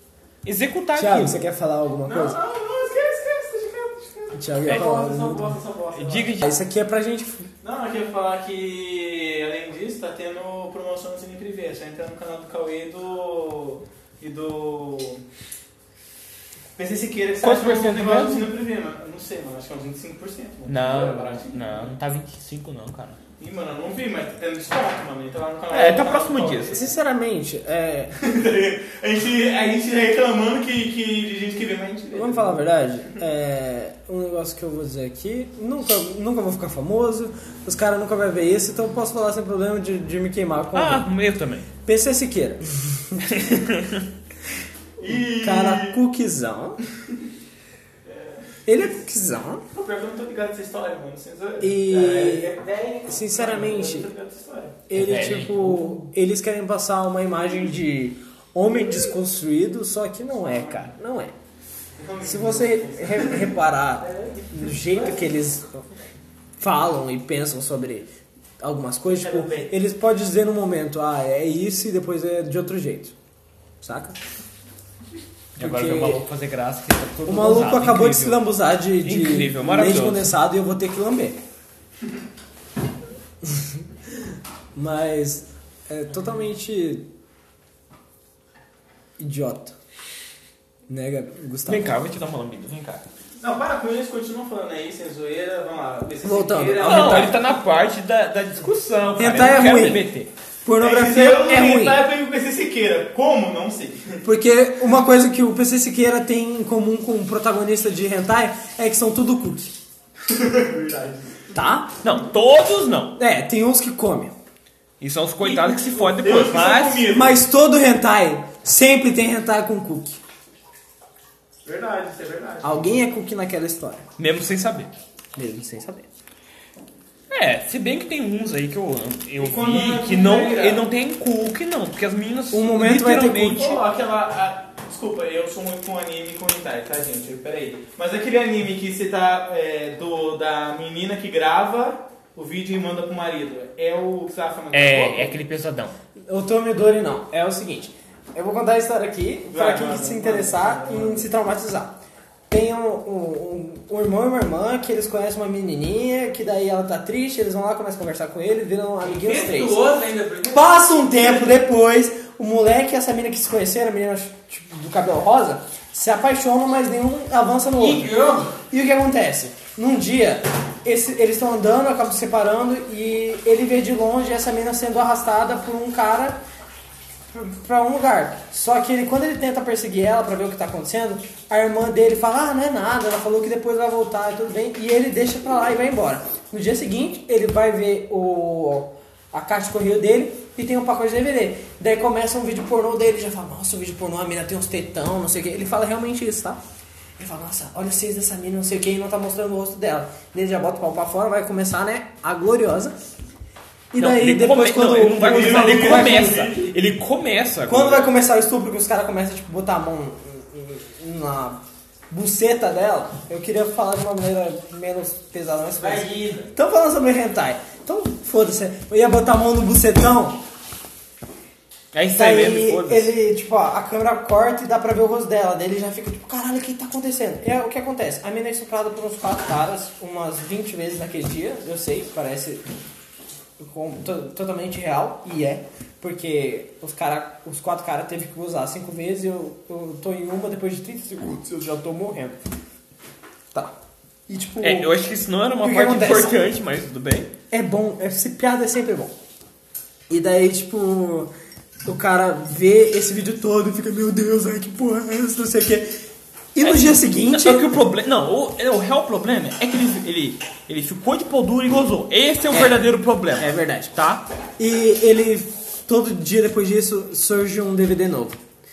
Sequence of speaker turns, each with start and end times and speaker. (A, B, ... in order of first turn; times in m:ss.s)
0:00.4-0:01.4 A
0:01.0-0:02.4 B
0:02.0-0:06.4 C
0:04.3-0:05.6 B
0:04.6-0:05.0 A
0:05.9-0:06.6 A
0:06.4-0:07.5 B
0:07.6-0:15.2 C
0:16.8-0:21.9 C
0:17.4-0:18.5 A
0:20.7-0:23.2 A
0:23.4-0:26.8 C
0:25.7-0:26.8 A
0:26.7-0:28.1 B
0:28.2-0:32.6 C
0:32.1-0:41.1 B
0:40.7-0:41.7 A
0:41.8-0:43.5 B
0:43.2-0:44.1 A
0:45.0-0:46.0 C
0:45.3-0:46.8 B
0:48.0-0:48.4 C
0:48.7-0:49.6 B
0:49.7-0:54.8 C
0:51.6-0:54.1 B
0:54.9-1:01.3 B
0:54.9-0:56.0 A
1:00.4-1:00.9 C
1:02.0-1:03.5 C
1:02.2-1:05.8 B
1:04.1-1:05.3 C
1:06.6-1:08.1 B
1:08.6-1:13.2 B
1:09.2-1:09.7 C
1:13.8-1:14.2 B
1:15.6-1:18.4 A
1:15.6-1:16.2 B
1:17.3-1:21.4 B
1:19.0-1:20.3 A
1:23.4-1:23.8 B
1:24.8-1:27.1 B
1:29.2-1:29.8 B
1:30.9-1:31.9 B
1:31.7-1:33.0 A
1:33.4-1:37.4 C
1:36.2-1:37.4 B
1:36.8-1:40.3 A
1:39.2-1:40.1 B
1:40.6-1:42.0 B
1:40.8-1:44.2 C
1:44.2-1:49.8 B
1:50.3-1:51.4 C
1:51.5-1:51.9 B
1:52.0-1:53.2 A
1:53.2-1:54.3 B
1:55.0-1:57.1 A
1:55.4-1:57.4 C
1:57.1-2:00.2 B
2:01.6-2:03.0 C
2:02.6-2:04.0 B
2:04.2-2:04.9 A
2:05.4-2:06.1 B
2:07.3-2:13.8 A
2:09.4-2:10.8 C
2:12.5-2:13.8 B
2:13.4-2:25.4 C
2:24.7-2:26.0 A
2:26.3-2:32.0 B
2:29.5-2:31.3 C
2:32.5-2:39.8 B
2:39.0-2:41.4 D
2:40.5-2:48.2 B
2:47.8-2:48.6 D
2:48.7-2:56.4 B
2:57.3-3:16.6 B
3:17.2-3:23.0 B
3:23.9-3:26.6 B
3:24.0-3:28.1 A
3:25.1-3:26.7 C
3:27.7-3:40.4 B
3:35.8-3:36.5 D
3:41.9-3:43.1 A
3:42.2-3:52.7 B
3:53.6-4:02.4 B
4:04.3-4:04.9 B
4:04.6-4:07.3 A
4:05.6-4:06.5 B
4:07.5-4:09.2 B
4:10.1-4:11.3 B
4:11.8-4:15.9 B
4:16.6-4:17.8 B
4:16.6-4:24.2 A
4:22.5-4:22.8 B
4:23.3-4:24.0 B
4:24.6-4:28.4 B